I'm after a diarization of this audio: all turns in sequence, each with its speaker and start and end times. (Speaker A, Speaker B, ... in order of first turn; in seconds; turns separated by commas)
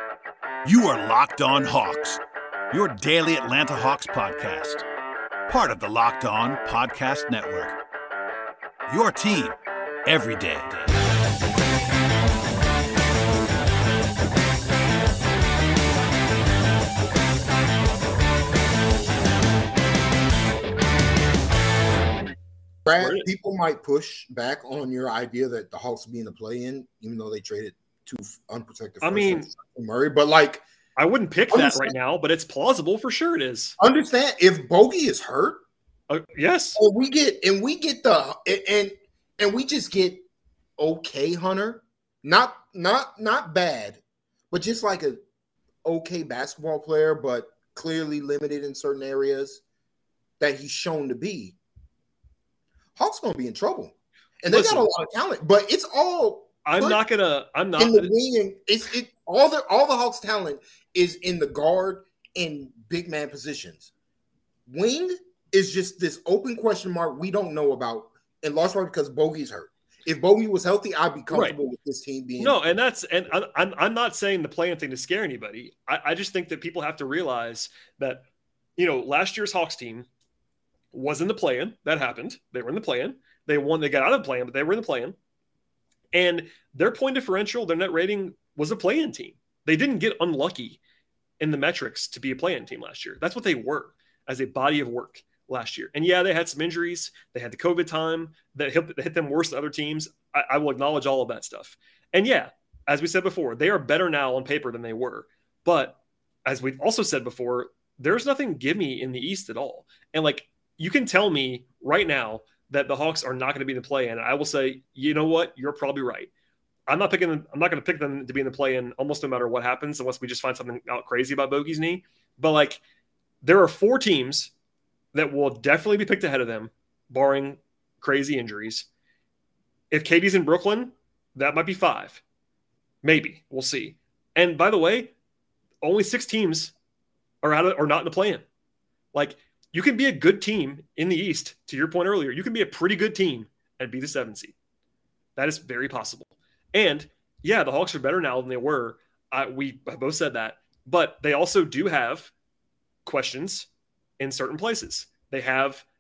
Speaker A: 0.6-4.8, Speaker A: 5.5-7.8, Speaker A: 8.9-11.0, Speaker B: 22.8-30.6, Speaker C: 22.9-23.3, Speaker C: 29.0-29.5, Speaker C: 31.0-33.8, Speaker B: 31.5-31.9, Speaker B: 33.8-35.6, Speaker C: 36.1-36.8, Speaker B: 36.8-40.2, Speaker B: 40.8-45.2, Speaker B: 45.8-49.6, Speaker B: 50.4-51.6, Speaker B: 53.0-57.0, Speaker C: 54.5-54.9, Speaker C: 56.6-58.1, Speaker B: 57.8-63.9, Speaker B: 64.7-72.6, Speaker C: 71.3-71.6, Speaker C: 72.4-78.2, Speaker C: 78.8-80.1, Speaker C: 80.9-85.2, Speaker C: 86.1-90.8, Speaker C: 91.4-116.3, Speaker C: 116.9-122.8, Speaker C: 123.4-124.5, Speaker C: 125.1-128.8, Speaker C: 129.9-132.2, Speaker C: 133.0-135.1, Speaker C: 135.8-136.7, Speaker C: 137.4-138.4, Speaker C: 139.1-144.5, Speaker C: 145.3-152.3, Speaker C: 153.0-153.7, Speaker C: 154.2-155.8